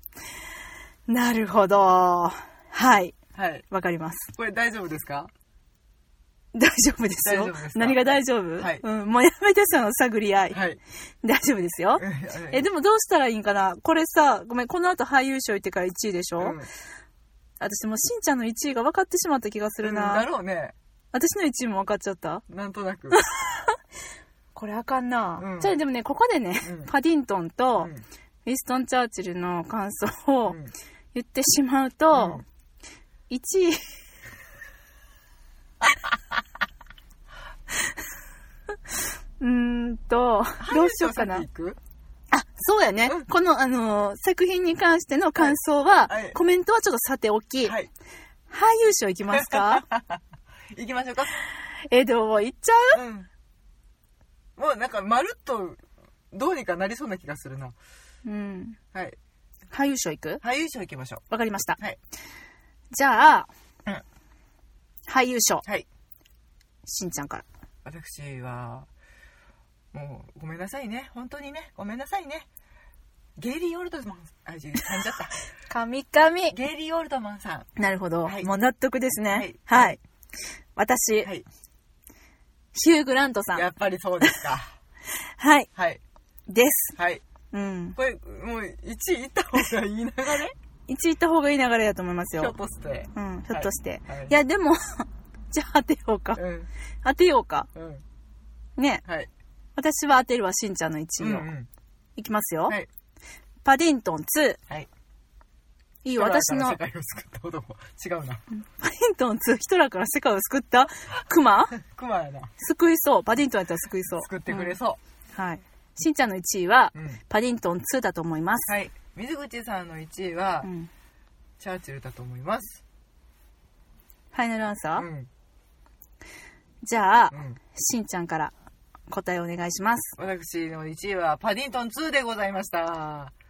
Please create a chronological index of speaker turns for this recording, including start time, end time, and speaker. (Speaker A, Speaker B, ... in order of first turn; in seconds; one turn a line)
Speaker A: 1.1-3.2
Speaker B: 3.3-3.7
Speaker A: 3.7-4.3
Speaker B: 4.3-5.3
Speaker A: 6.5-10.6
Speaker B: 7.2-8.8
Speaker B: 10.5-10.8
Speaker A: 11.2-16.6
Speaker B: 12.0-12.7
Speaker B: 16.4-16.7
Speaker A: 17.6-20.3
Speaker B: 19.8-20.7
Speaker A: 21.1-22.4
Speaker B: 22.5-23.2
Speaker A: 23.1-23.8
Speaker A: 24.6-27.9
Speaker B: 25.4-25.8
Speaker B: 26.6-26.9
Speaker B: 27.8-28.0
Speaker A: 28.5-30.6
Speaker A: 31.1-32.4
Speaker B: 32.1-32.4
Speaker A: 33.3-33.9
Speaker B: 35.8-36.1
Speaker A: 39.4-41.5
Speaker B: 40.6-41.8
Speaker A: 42.3-47.8
Speaker B: 45.4-46.4
Speaker B: 47.6-47.9
Speaker A: 48.5-49.9
Speaker B: 49.3-51.4
Speaker A: 51.9-53.0
Speaker B: 52.9-53.3
Speaker B: 54.6-57.8
Speaker A: 58.2-58.8
Speaker A: 59.7-60.4
Speaker B: 60.4-61.2
Speaker A: 61.3-61.8
Speaker A: 62.9-63.5
Speaker A: 65.1-65.7
Speaker A: 66.9-67.4
Speaker B: 67.8-68.9
Speaker B: 69.9-72.5
Speaker B: 73.4-75.4
Speaker A: 75.7-76.6
Speaker B: 76.5-77.7
Speaker A: 77.8-80.0
Speaker B: 78.2-78.5
Speaker B: 79.3-80.0
Speaker A: 80.8-81.3
Speaker A: 82.7-83.7
Speaker B: 83.5-84.8
Speaker A: 85.2-85.7
Speaker B: 85.8-86.0
Speaker A: 86.5-87.0
Speaker B: 87.0-87.2
Speaker A: 87.5-88.0
Speaker B: 88.0-90.5
Speaker A: 90.9-92.6
Speaker B: 92.4-94.3
Speaker A: 93.2-96.4
Speaker B: 96.4-96.7
Speaker A: 97.0-97.7
Speaker B: 97.8-98.0
Speaker A: 98.8-99.0
Speaker A: 99.8-101.5
Speaker B: 101.2-101.7
Speaker A: 102.2-102.8
Speaker A: 103.7-104.6
Speaker A: 106.0-106.8
Speaker B: 106.2-108.4
Speaker A: 108.5-111.8
Speaker B: 111.7-112.5
Speaker A: 112.6-114.8
Speaker B: 114.2-115.0
Speaker A: 115.3-118.7
Speaker B: 116.9-117.2
Speaker B: 118.7-120.7
Speaker A: 120.6-120.9
Speaker B: 121.6-122.8
Speaker A: 124.3-125.1
Speaker B: 125.0-125.3
Speaker A: 126.8-128.5
Speaker B: 127.3-127.6
Speaker A: 129.1-130.2
Speaker B: 130.2-133.3